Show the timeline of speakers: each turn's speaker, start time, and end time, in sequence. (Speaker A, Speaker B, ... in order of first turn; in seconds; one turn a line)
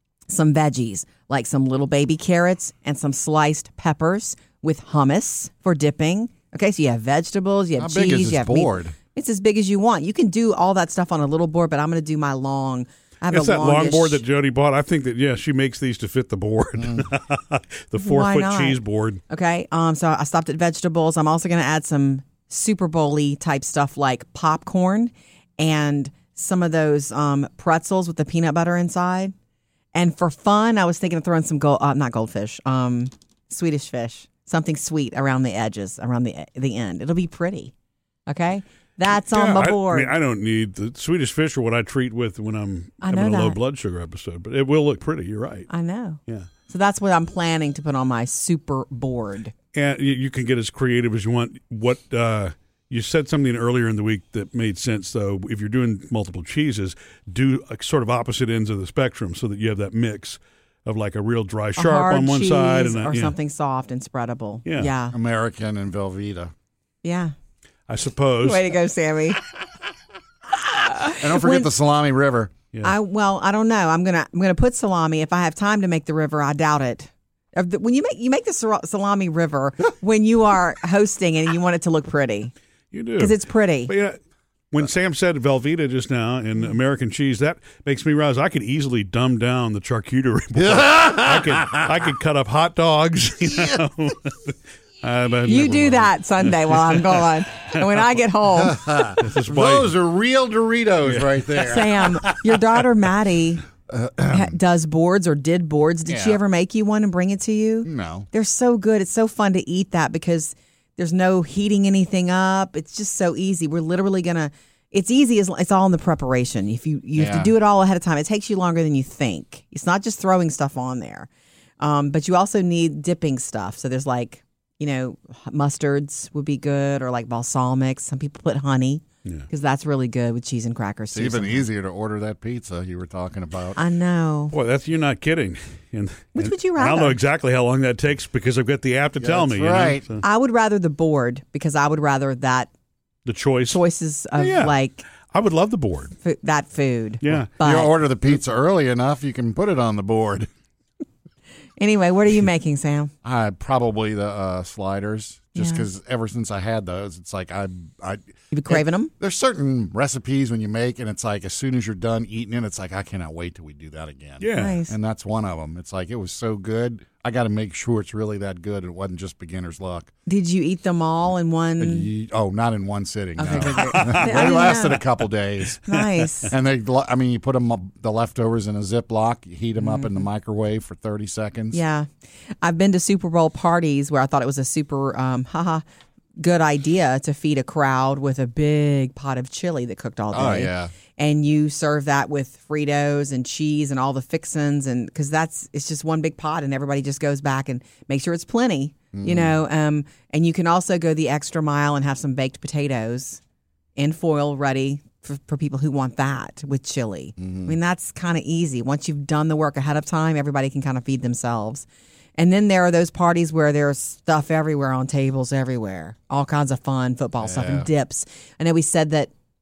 Speaker A: 0.3-14.2
Speaker B: 7.8-8.9
Speaker C: 13.3-19.2
Speaker A: 18.0-18.8
Speaker A: 19.3-29.3
Speaker A: 29.9-37.7
Speaker A: 38.3-40.1
Speaker C: 39.2-45.7
Speaker A: 43.0-43.6
Speaker A: 45.7-49.5
Speaker C: 49.7-63.4
Speaker A: 61.8-65.2
Speaker C: 64.7-64.9
Speaker B: 65.1-66.5
Speaker A: 67.0-67.3
Speaker C: 67.9-68.7
Speaker A: 68.4-69.4
Speaker A: 70.5-71.7
Speaker B: 71.2-72.5
Speaker A: 72.8-82.5
Speaker C: 82.9-84.2
Speaker A: 83.2-83.9
Speaker C: 84.7-97.2
Speaker B: 90.6-91.9
Speaker A: 95.5-99.1
Speaker B: 98.5-102.2
Speaker C: 99.2-99.9
Speaker A: 101.5-103.6
Speaker B: 103.9-104.5
Speaker A: 104.3-121.3
Speaker B: 106.1-106.4
Speaker B: 107.8-108.3
Speaker B: 117.2-117.5
Speaker A: 121.8-131.7
Speaker B: 131.1-133.8
Speaker A: 133.8-134.5
Speaker C: 134.5-140.2
Speaker A: 136.3-137.2
Speaker B: 139.2-140.1
Speaker A: 140.2-142.7
Speaker C: 143.3-143.8
Speaker A: 143.7-145.1
Speaker C: 144.4-146.1
Speaker A: 146.2-147.9
Speaker C: 147.2-147.5
Speaker B: 147.3-150.5
Speaker A: 151.8-153.1
Speaker B: 153.2-170.1
Speaker A: 155.6-155.9
Speaker A: 158.5-159.1
Speaker C: 164.4-164.8
Speaker A: 164.6-164.9
Speaker A: 170.3-172.1
Speaker B: 171.8-175.8
Speaker A: 173.4-175.0
Speaker C: 173.7-174.6
Speaker A: 175.8-176.5
Speaker B: 176.5-181.8
Speaker A: 179.8-180.2
Speaker A: 181.7-182.1
Speaker A: 182.6-185.8
Speaker A: 186.4-203.4
Speaker B: 190.3-190.9
Speaker B: 199.1-199.5
Speaker A: 204.0-219.3
Speaker B: 207.4-207.7
Speaker B: 217.4-217.9